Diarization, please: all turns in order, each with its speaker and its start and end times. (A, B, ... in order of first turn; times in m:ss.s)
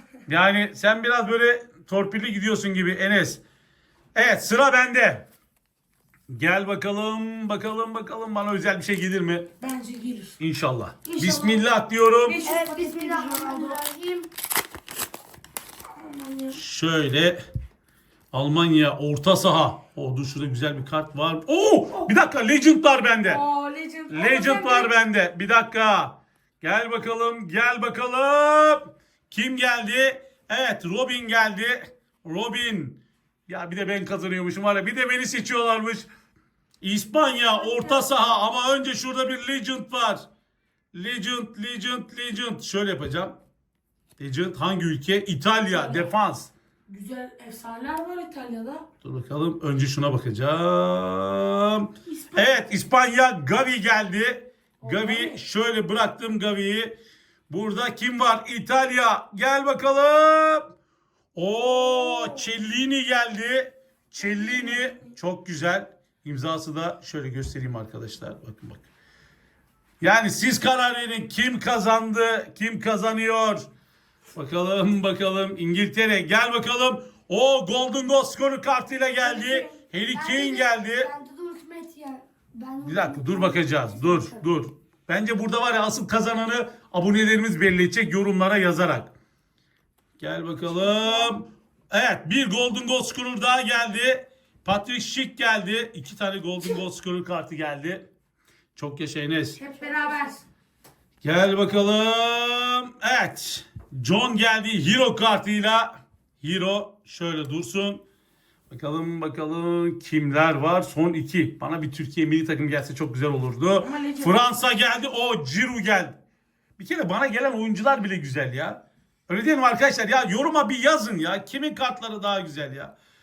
0:00.3-0:03.4 A
0:04.1-0:05.2 A
0:06.3-0:09.5 A
0:09.6-0:10.4 B
0:10.4-0:12.4 A
0:11.0-0:11.7 B
0:12.2-0:13.8 B
0:12.4-0:14.3 C
0:16.0-0:16.6 B
0:16.5-0:17.4 A
0:18.3-0:23.4 A
0:23.2-0:24.9 B
0:24.1-0:36.1 A
0:36.8-0:40.2 A
0:37.3-0:38.1 B
0:40.9-0:43.4 A
0:44.2-0:46.5 A
0:45.7-0:46.1 B
0:46.9-0:48.8 B
0:49.0-0:56.9 A
0:52.0-0:52.6 B
0:54.8-0:55.4 B
0:57.5-1:00.7 A
1:01.3-1:08.8 A
1:01.8-1:02.5 B
1:04.2-1:05.1 B
1:10.0-1:13.6 A
1:14.3-1:21.1 A
1:19.2-1:24.4 C
1:22.8-1:29.1 A
1:30.2-1:38.0 A
1:30.7-1:31.4 C
1:38.8-1:39.6 A
1:39.6-1:40.4 B
1:39.8-1:40.2 C
1:41.2-1:48.0 A
1:48.7-1:56.2 A
1:53.8-1:54.4 B
1:56.8-2:02.9 A